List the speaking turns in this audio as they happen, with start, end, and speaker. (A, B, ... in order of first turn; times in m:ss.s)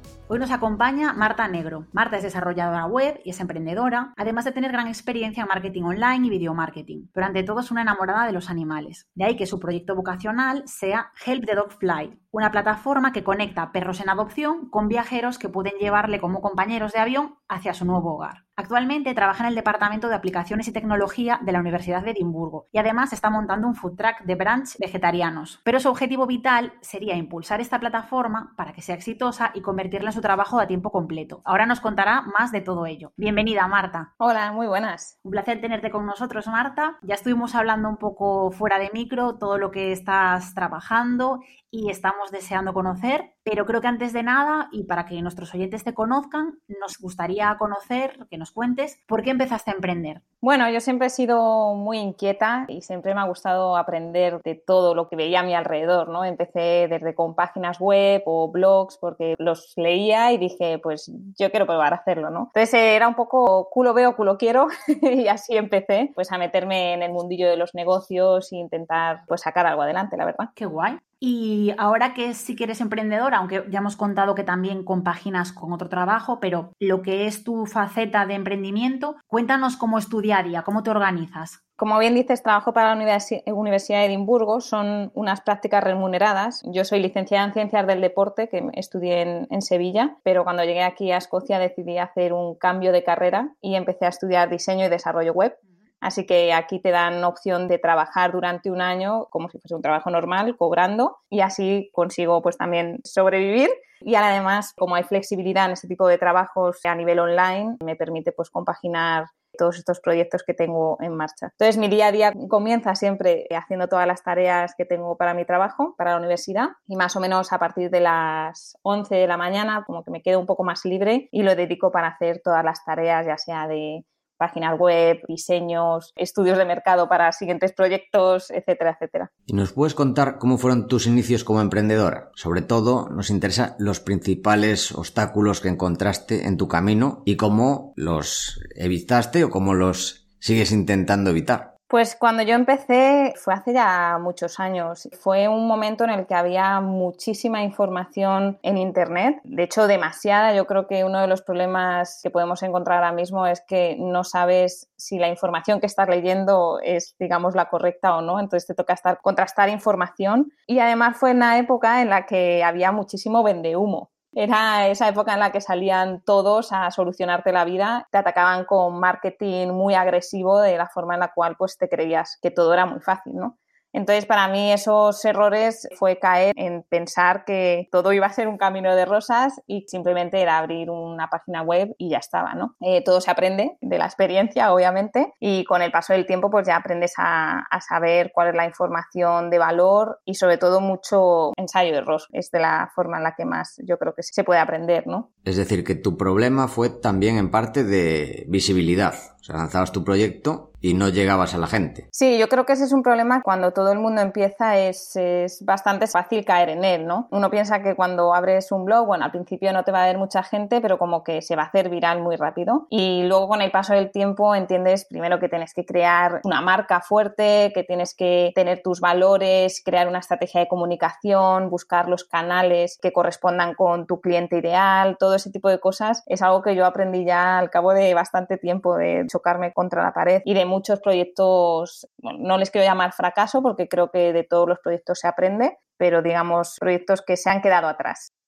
0:00.3-0:34.1 A
0:34.2-0:35.2 B
0:35.2-0:50.2 A
0:50.4-1:10.5 B
1:10.6-1:21.6 A
1:21.8-2:09.3 B
2:09.5-2:21.7 C
2:21.9-3:15.3 B
3:15.4-3:22.1 C
3:22.1-3:58.3 B